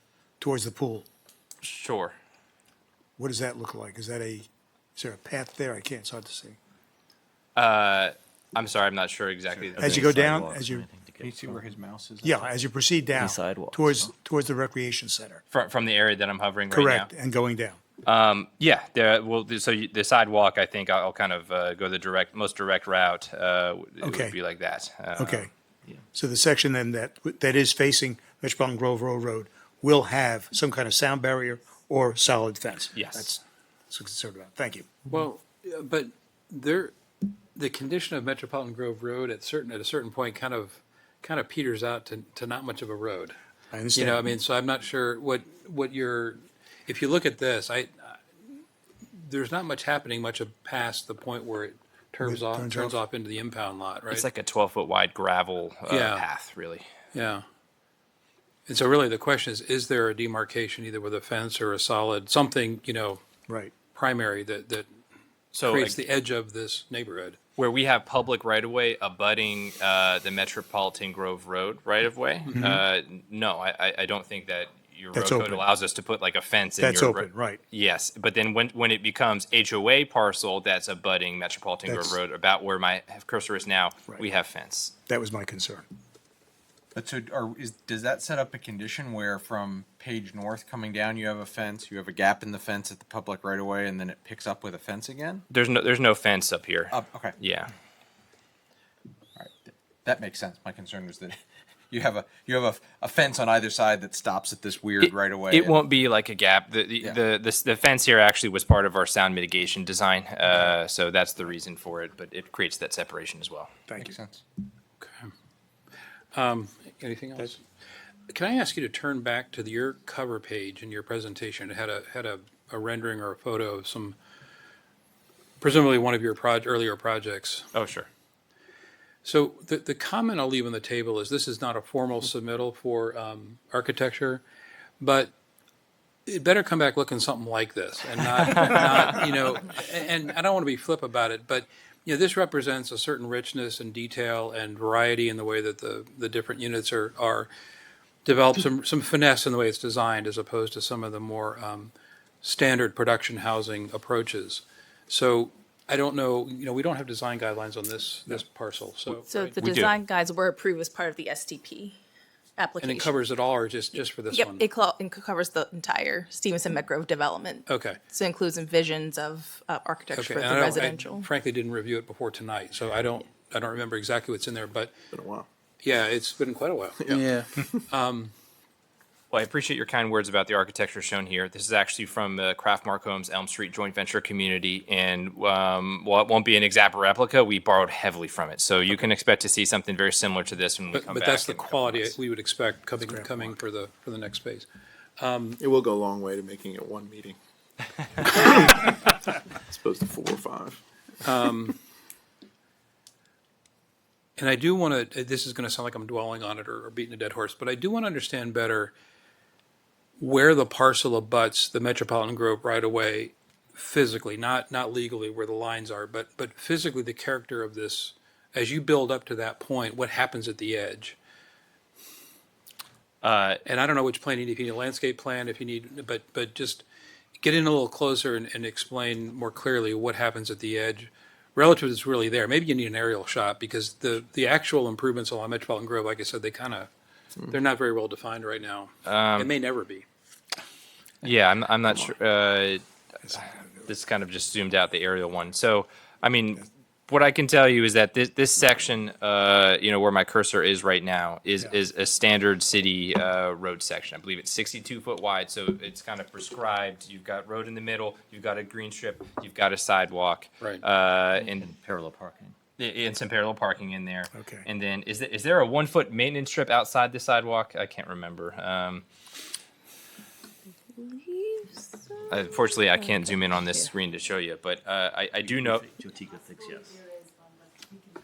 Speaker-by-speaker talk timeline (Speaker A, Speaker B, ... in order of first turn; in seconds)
Speaker A: 0.4-1.1, 3.2-6.6, 9.8-10.8, 12.2-15.4, 16.7-17.8, 24.0-24.4, 25.2-25.5, 26.1-34.9, 43.7-44.2, 52.2-53.0, 72.5-72.8, 75.1-75.7, 76.8-77.6, 81.9-82.2, 85.1-85.8, 193.0-193.5, 264.4-264.7
Speaker B: 1.6-2.1, 7.5-9.9, 15.5-17.1, 18.0-25.5, 33.0-33.3, 54.1-56.9, 65.5-66.0, 67.6-84.9, 95.5-97.7, 105.0-113.7, 127.7-128.1, 159.6-159.9, 179.3-192.2, 223.2-223.6, 239.1-239.5, 241.2-261.7, 262.8-269.1, 272.3-275.9
Speaker C: 9.5-11.6, 13.2-14.1, 261.4-262.6, 275.4-277.1
Speaker D: 11.2-12.5, 87.0-95.5, 96.9-97.4, 99.4-101.4, 101.9-105.8, 114.0-114.4
Speaker E: 35.1-36.9, 37.5-43.4, 44.0-48.2, 49.1-54.3, 55.9-56.3, 57.1-57.4, 58.7-63.2, 63.9-64.9, 65.6-67.4, 115.0-115.3, 116.3-117.6, 118.3-124.2, 125.6-127.7, 129.2-134.4, 135.0-135.3, 136.3-147.5, 148.2-159.6, 162.8-164.7, 167.7-168.0, 170.1-174.9, 175.8-178.3, 190.9-194.7, 195.2-195.6, 201.2-201.8, 204.4-208.9, 210.2-221.2, 223.7-226.8, 227.4-236.9, 237.5-240.1
Speaker F: 159.3-162.0, 162.6-163.1, 164.3-171.3, 271.0-272.3, 273.1-273.8
Speaker G: 175.1-175.5, 177.0-177.8, 195.6-197.4, 198.2-200.8